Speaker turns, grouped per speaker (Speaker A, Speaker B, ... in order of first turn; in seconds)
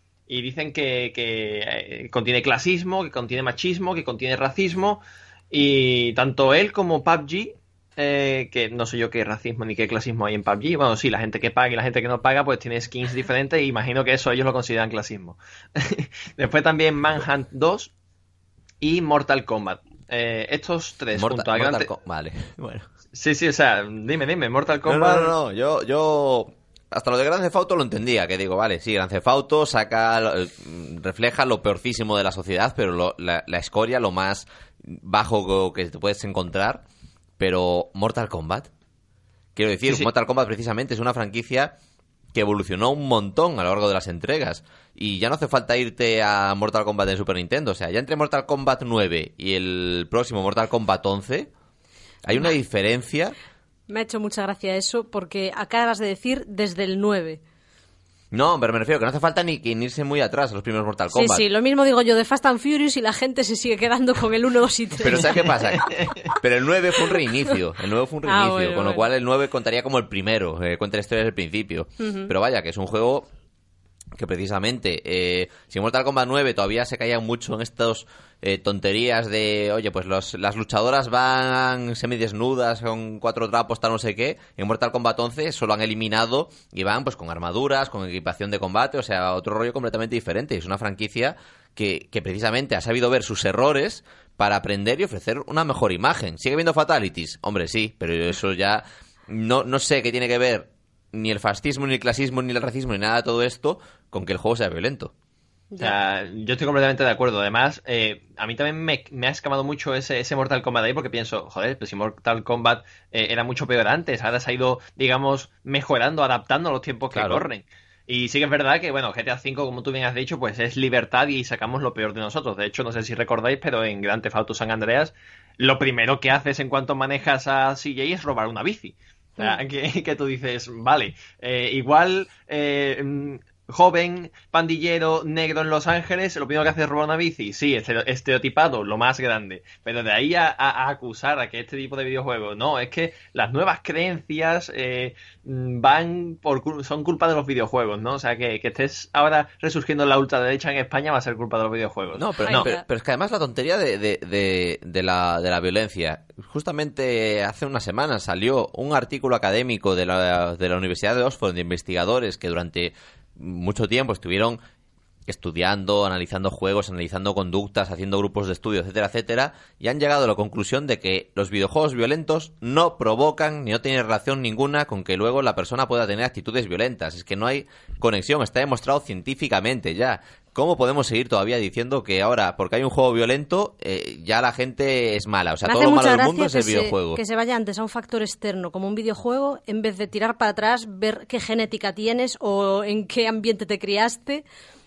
Speaker A: 0.3-17.9, 18.8-21.9, 23.1-25.3, 65.1-66.3, 105.8-152.8
Speaker B: 21.1-22.9, 24.9-36.8, 37.4-38.7, 39.5-41.7, 42.3-51.5, 52.2-53.3, 58.3-61.4, 65.0-65.9, 66.4-73.3, 74.1-105.1, 117.1-117.5, 152.2-164.6, 165.3-187.2
Speaker C: 53.9-57.4, 61.1-65.9, 68.2-69.0, 72.0-72.3, 152.4-152.8, 185.6-194.4